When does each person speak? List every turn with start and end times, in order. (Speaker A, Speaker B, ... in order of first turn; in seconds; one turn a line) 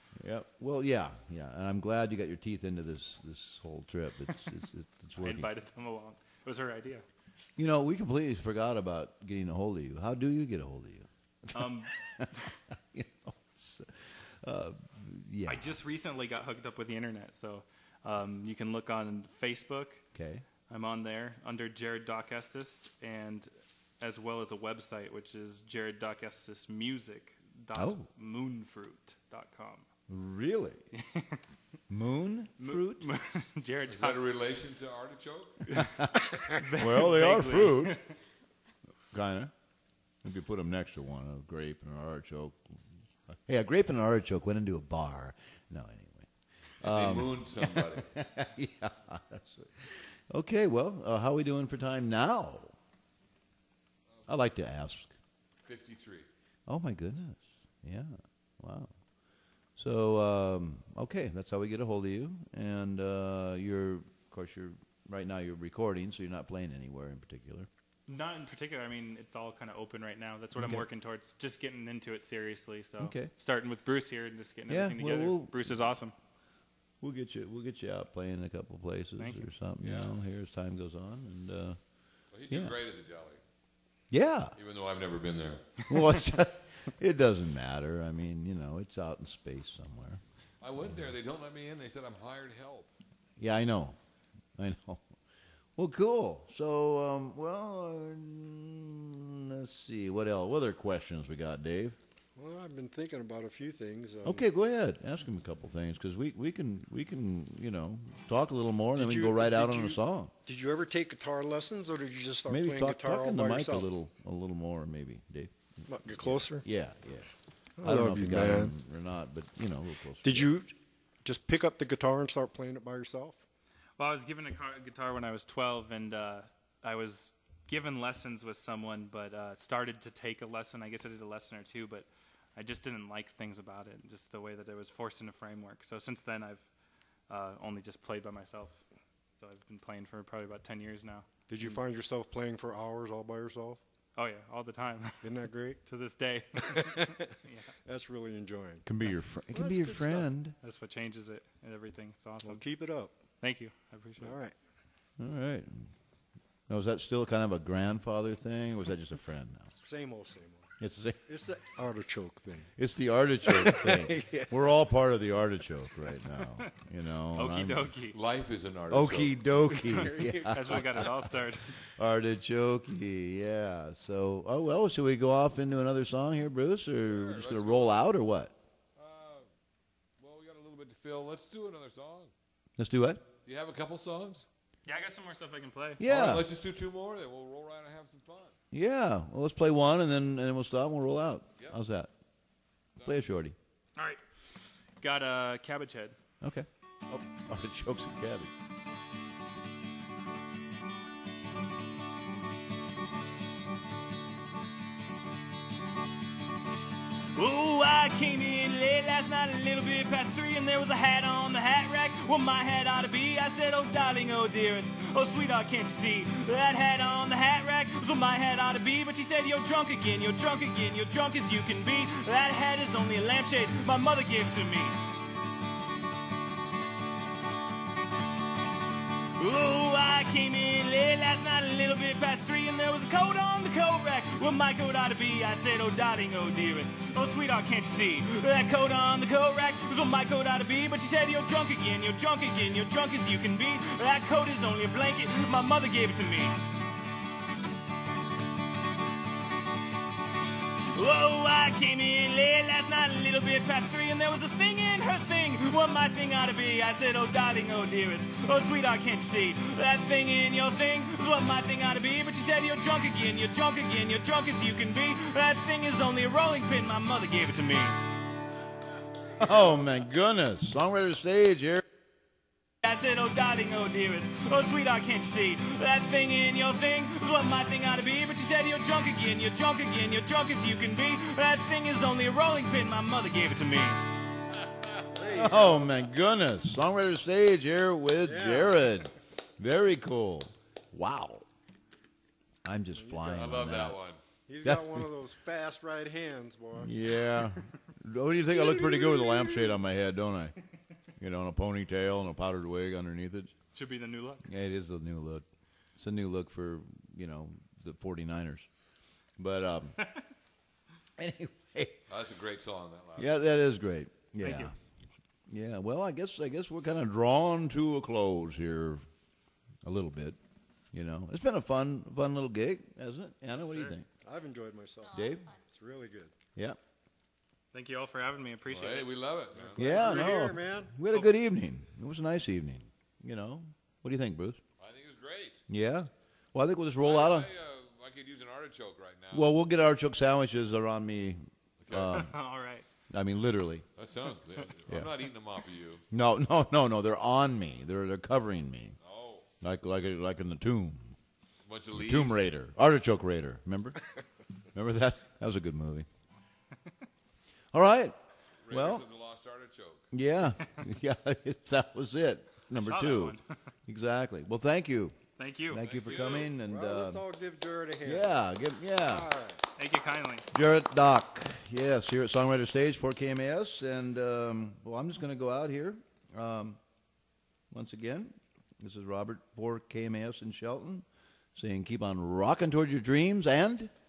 Speaker A: 0.1-5.5
Speaker B: 5.2-7.0
Speaker A: 7.6-15.8
Speaker B: 11.5-12.5
Speaker B: 15.5-20.0
Speaker A: 20.1-20.4
Speaker B: 20.7-29.9
Speaker A: 27.7-28.0
Speaker A: 30.1-30.9
Speaker B: 30.9-31.4
Speaker A: 31.9-33.1
Speaker B: 32.6-34.3
Speaker C: 33.9-35.7
Speaker B: 35.7-38.1
Speaker A: 35.8-36.2
Speaker A: 36.8-38.0
Speaker A: 39.1-39.5
Speaker A: 40.2-52.7
Speaker C: 46.8-48.1
Speaker A: 54.3-55.1
Speaker C: 55.6-56.3
Speaker A: 56.7-58.9
Speaker A: 59.8-67.7
Speaker B: 68.1-76.1
Speaker A: 70.5-70.8
Speaker A: 73.0-73.3
Speaker A: 74.7-75.7
Speaker A: 77.0-81.8
Speaker B: 79.2-79.5
Speaker C: 79.8-80.2
Speaker C: 82.3-83.4
Speaker A: 82.5-82.7
Speaker A: 84.1-84.5
Speaker C: 84.5-85.8
Speaker A: 85.9-90.2
Speaker C: 90.6-92.9
Speaker A: 93.4-94.0
Speaker A: 94.6-95.0
Speaker A: 95.8-102.0
Speaker D: 102.3-104.4
Speaker A: 104.2-110.3
Speaker D: 109.0-113.9
Speaker A: 112.5-115.5
Speaker D: 115.9-116.7
Speaker A: 116.0-120.5
Speaker D: 117.8-118.7
Speaker D: 120.2-123.4
Speaker B: 124.0-136.7
Speaker B: 137.3-138.8
Speaker B: 139.4-141.2
Speaker D: 141.5-143.8
Speaker B: 144.2-147.7
Speaker D: 145.2-145.8
Speaker D: 146.7-147.2
Speaker D: 147.8-148.8
Speaker A: 148.8-150.6
Speaker D: 149.5-150.3
Speaker B: 150.6-152.6
Speaker D: 152.4-153.1
Speaker B: 153.4-154.3
Speaker D: 154.2-154.6
Speaker A: 155.2-155.9
Speaker A: 156.7-159.7
Speaker D: 159.8-160.7
Speaker A: 160.8-161.3
Speaker D: 161.3-162.7
Speaker A: 162.8-167.9
Speaker D: 163.5-164.5
Speaker B: 167.3-168.2
Speaker C: 168.1-169.4
Speaker A: 168.9-178.5
Speaker D: 169.9-170.6
Speaker B: 170.4-171.8
Speaker C: 177.0-178.0
Speaker C: 178.9-179.5
Speaker C: 180.2-182.3
Speaker A: 182.8-183.2
Speaker C: 183.4-184.4
Speaker B: 184.8-186.0
Speaker A: 186.0-186.4
Speaker C: 186.0-188.5
Speaker A: 188.7-192.1
Speaker A: 193.0-193.6
Speaker B: 193.9-194.2
Speaker B: 195.0-196.2
Speaker A: 196.4-198.5
Speaker B: 207.3-225.0
Speaker B: 229.3-246.6
Speaker B: 250.9-267.9
Speaker A: 269.4-271.8
Speaker B: 272.8-284.0
Speaker D: 285.1-285.9
Speaker A: 285.4-291.4
Speaker D: 288.2-288.8
Speaker A: 292.6-294.0
Speaker D: 292.9-293.5
Speaker C: 293.3-294.2
Speaker D: 294.5-296.9
Speaker A: 294.6-295.1
Speaker A: 296.7-300.5
Speaker D: 298.5-299.8
Speaker A: 301.2-303.5
Speaker B: 303.7-304.4
Speaker A: 304.5-308.7
Speaker A: 309.4-310.0
Speaker A: 311.2-312.0
Speaker C: 312.1-313.3
Speaker A: 313.2-314.7
Speaker B: 314.4-314.7
Speaker A: 315.5-319.0
Speaker A: 319.8-320.4
Speaker A: 320.9-324.1
Speaker B: 323.6-324.0
Speaker D: 324.2-326.3
Speaker A: 325.1-325.5
Speaker B: 327.7-329.1
Speaker C: 328.7-329.8
Speaker D: 329.5-330.9
Speaker A: 329.8-334.6
Speaker C: 334.8-335.6
Speaker A: 335.7-337.5
Speaker C: 337.0-339.5
Speaker A: 339.3-342.3
Speaker C: 341.8-342.3
Speaker B: 342.1-342.9
Speaker A: 343.1-343.9
Speaker C: 343.9-346.0
Speaker A: 346.1-348.9
Speaker C: 349.0-349.5
Speaker A: 349.6-351.1
Speaker C: 351.6-352.5
Speaker A: 351.9-354.0
Speaker A: 354.7-356.1
Speaker A: 357.7-358.1
Speaker C: 358.6-360.1
Speaker A: 358.7-359.0
Speaker A: 360.1-365.1
Speaker B: 362.7-363.4
Speaker B: 365.4-365.8
Speaker A: 365.7-367.2
Speaker C: 365.8-366.5
Speaker D: 366.6-368.4
Speaker A: 368.0-369.3
Speaker D: 369.0-369.6
Speaker B: 369.8-370.5
Speaker A: 370.5-376.8
Speaker A: 377.7-383.9